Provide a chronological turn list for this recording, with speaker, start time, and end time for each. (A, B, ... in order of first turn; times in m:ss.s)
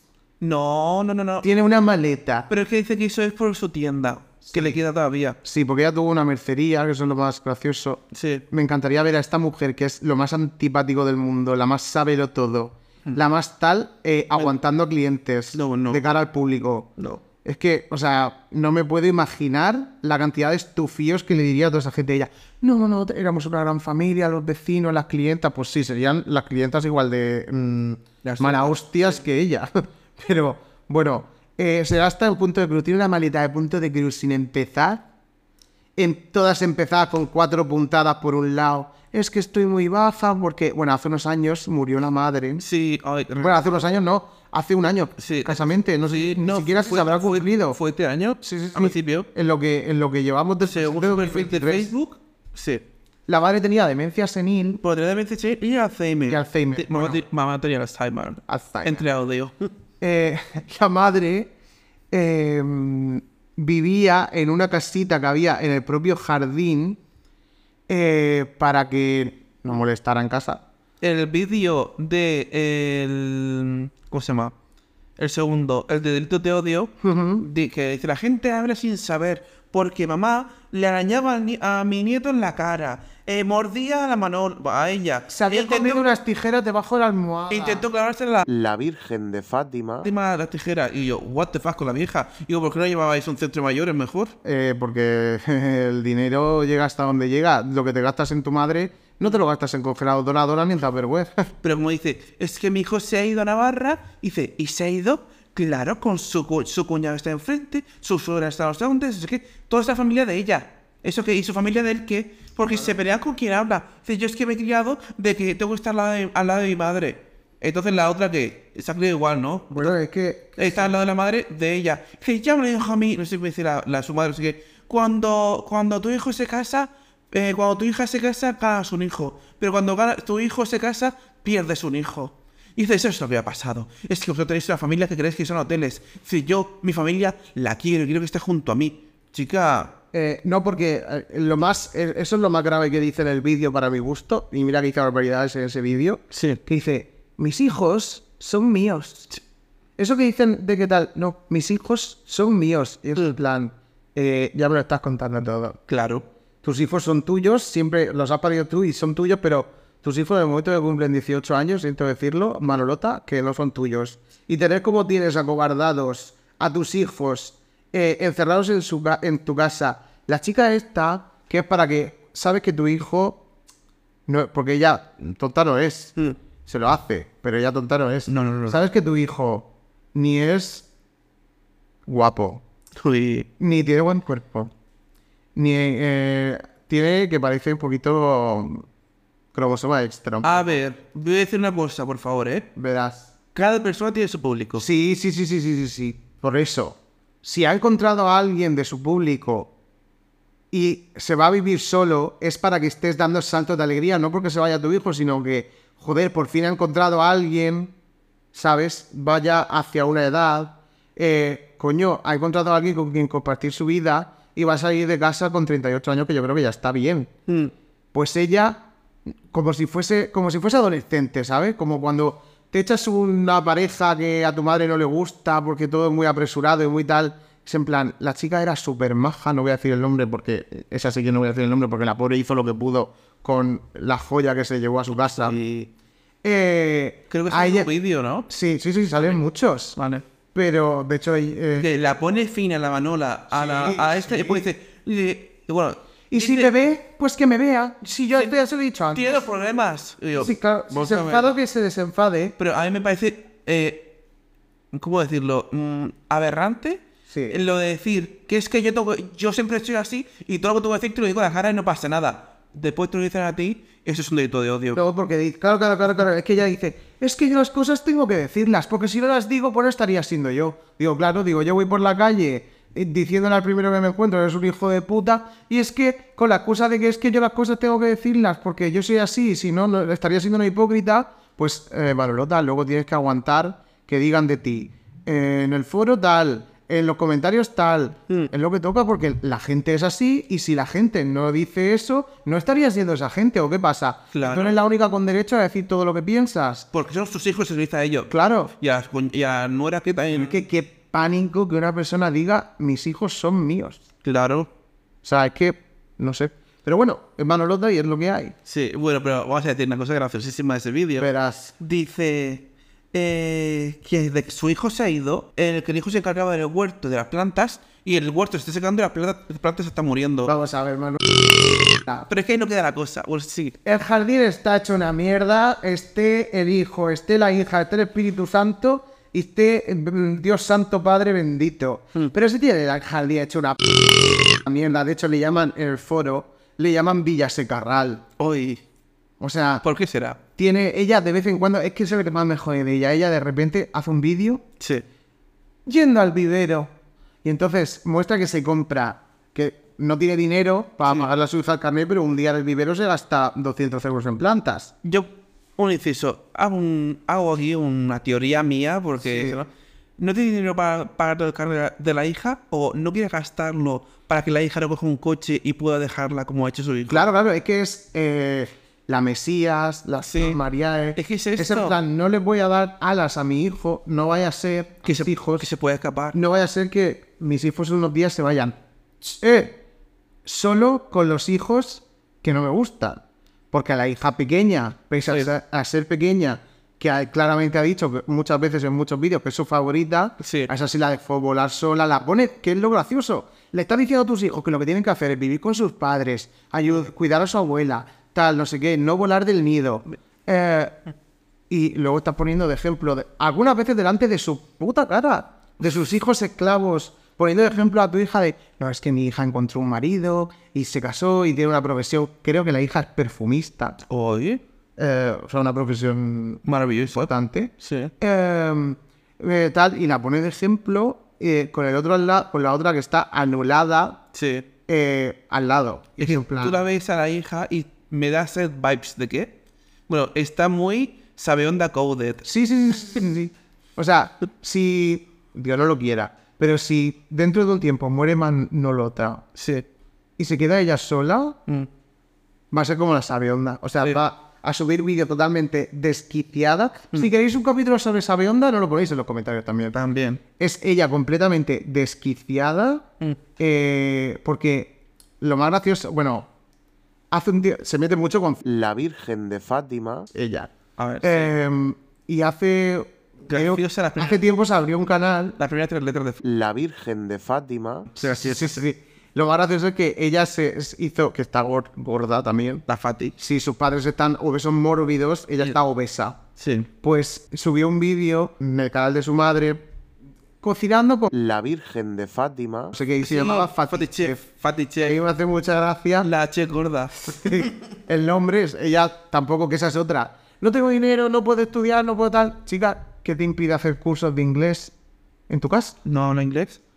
0:00.4-0:01.5 A
0:01.4-0:02.5 B
0:02.5-0:05.4 A
0:04.5-0:04.8 B
0:05.4-0:16.9 B
0:08.1-0:08.4 A
0:15.5-0:16.0 A
0:17.4-0:35.0 B
0:28.2-0:28.7 A
0:36.0-0:42.6 B
0:42.6-0:43.6 A
0:43.4-0:47.8 B
0:45.2-0:49.3 A
0:48.4-0:51.9 B
0:50.6-0:52.8 A
0:53.3-0:54.8 B
0:54.8-0:59.7 A
0:56.3-0:57.2 B
0:58.5-0:59.0 B
1:00.0-1:01.5 B
1:02.1-1:07.0 B
1:07.9-1:10.6 B
1:11.0-1:14.5 A
1:15.2-1:26.1 A
1:17.0-1:17.5 B
1:25.3-1:27.9 B
1:27.5-1:28.4 A
1:28.4-1:30.1 C
1:30.0-1:34.4 A
1:34.4-1:41.5 B
1:41.6-1:59.9 A
1:59.7-2:00.8 B
2:00.6-2:19.9 A
2:20.1-2:29.3 B
2:26.3-2:26.6 A
2:30.0-2:35.8 B
2:35.9-2:36.2 A
2:36.6-2:53.4 B
2:54.3-2:56.2 B
2:56.6-3:00.8 B
2:58.3-2:58.8 A
3:02.1-3:02.6 B
3:03.0-3:03.5 A
3:03.6-3:04.7 B
3:05.5-3:08.8 B
3:09.5-3:10.6 B
3:10.4-3:12.7 A
3:12.8-3:13.3 B
3:13.5-3:14.8 A
3:14.8-3:19.7 B
3:20.7-3:27.9 B
3:28.5-3:37.3 B
3:37.5-3:37.7 A
3:38.1-3:38.8 B
3:39.5-3:55.6 B
3:55.4-3:55.9 A
3:56.4-3:57.9 B
3:57.3-3:58.5 A
3:58.5-4:00.0 B
4:00.0-4:00.2 A
4:00.5-4:01.9 B
4:01.8-4:06.7 A
4:03.5-4:04.7 B
4:06.3-4:09.3 B
4:09.1-4:11.5 A
4:10.4-4:12.6 B
4:12.6-4:14.2 A
4:14.9-4:25.0 A
4:17.3-4:17.6 B
4:24.9-4:56.9 B
4:54.3-4:54.7 A
4:56.9-5:00.5 A
4:58.3-4:58.7 B
5:00.3-5:04.0 B
5:04.2-5:04.7 A
5:05.2-5:08.5 B
5:08.6-5:11.3 A
5:11.2-5:11.7 B
5:11.8-5:20.5 A
5:20.5-5:22.3 B
5:22.3-5:23.8 A
5:23.8-5:38.2 B
5:38.4-5:38.8 A
5:39.4-5:39.8 B
5:39.8-5:40.4 A
5:40.6-5:44.6 B
5:44.8-5:45.0 A
5:45.8-5:46.9 B
5:47.4-5:54.9 B
5:55.0-6:07.2 A
5:59.2-5:59.6 B
6:07.1-6:15.7 B
6:10.3-6:10.6 A
6:11.2-6:12.0 A
6:15.0-6:16.4 A
6:16.3-6:19.8 B
6:20.4-6:41.0 B
6:30.4-6:30.7 A
6:41.7-6:54.0 B
6:54.1-6:54.6 A
6:55.0-7:04.2 B
6:56.6-6:57.3 A
6:57.8-6:58.1 A
7:04.3-7:04.7 A
7:04.9-7:06.8 B
7:06.2-7:09.5 A
7:10.1-7:12.4 A
7:12.4-7:19.4 B
7:19.5-7:19.8 A
7:20.4-7:21.6 B
7:22.7-7:30.0 B
7:29.9-7:30.4 A
7:30.6-7:33.0 B
7:33.6-7:36.5 B
7:37.3-7:38.6 B
7:38.6-7:40.3 C
7:40.3-7:40.7 B
7:41.0-7:41.5 A
7:41.2-7:45.6 B
7:43.5-7:44.4 A
7:45.6-7:46.4 A
7:46.4-7:48.1 C
7:48.1-7:48.8 A
7:48.2-7:52.8 B
7:52.9-7:53.4 A
7:53.4-7:56.4 B
7:56.6-7:56.9 A
7:57.0-7:59.8 B
8:00.6-8:01.3 B
8:01.3-8:03.0 C
8:02.9-8:04.4 B
8:03.2-8:05.2 A
8:05.0-8:06.3 B
8:06.2-8:07.7 A
8:07.2-8:14.9 B
8:15.5-8:16.0 B
8:16.0-8:16.8 A